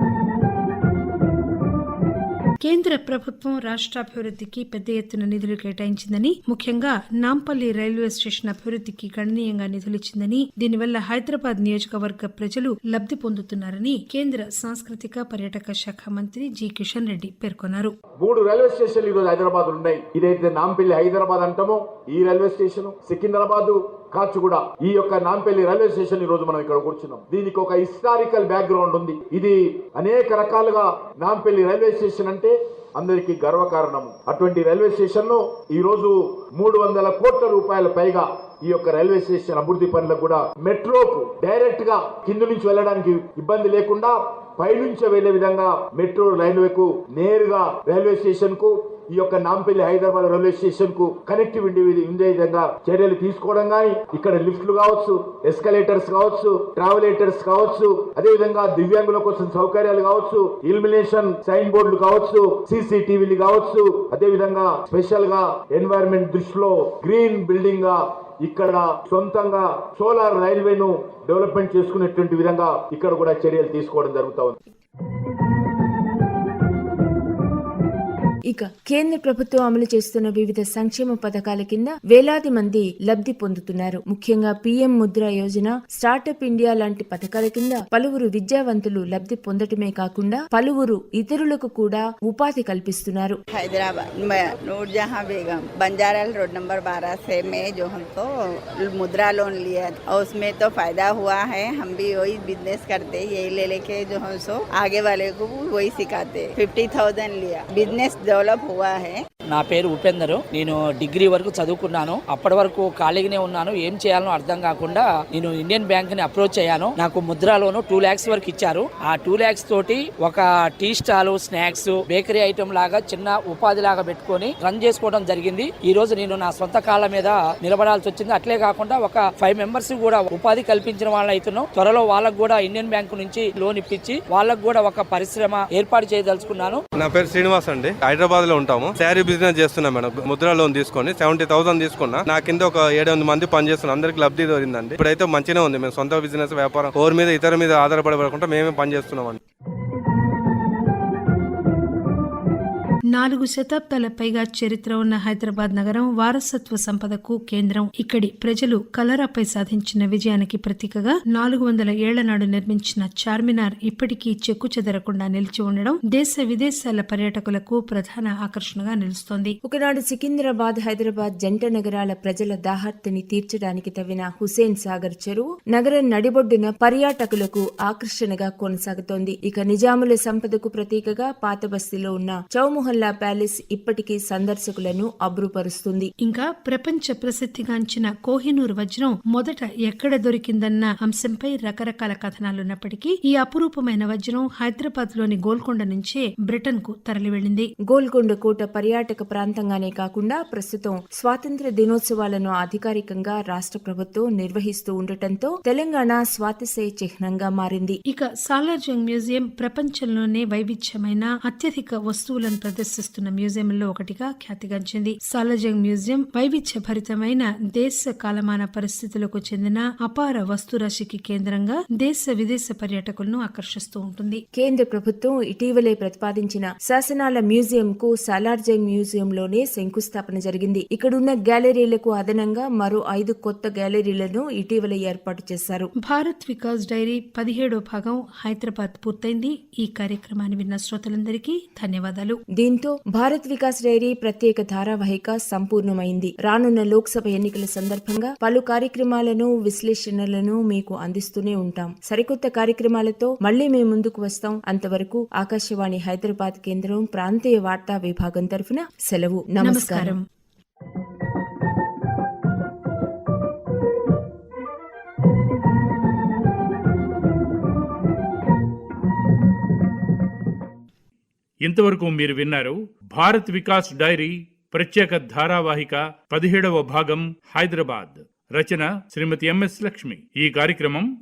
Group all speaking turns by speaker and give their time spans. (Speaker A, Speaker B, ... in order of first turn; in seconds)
Speaker A: 2.6-17.9, 153.2-169.6, 186.2-197.7, 208.1-224.4, 236.0-242.4, 259.6-260.2
Speaker B: 18.2-36.1, 36.6-74.5
Speaker C: 78.5-93.4, 169.7-186.1, 197.9-208.0, 224.6-235.9, 242.6-260.1
Speaker D: 93.5-98.3, 98.8-109.2
Speaker E: 109.5-136.8
Speaker F: 137.0-149.4
Speaker G: 271.6-281.1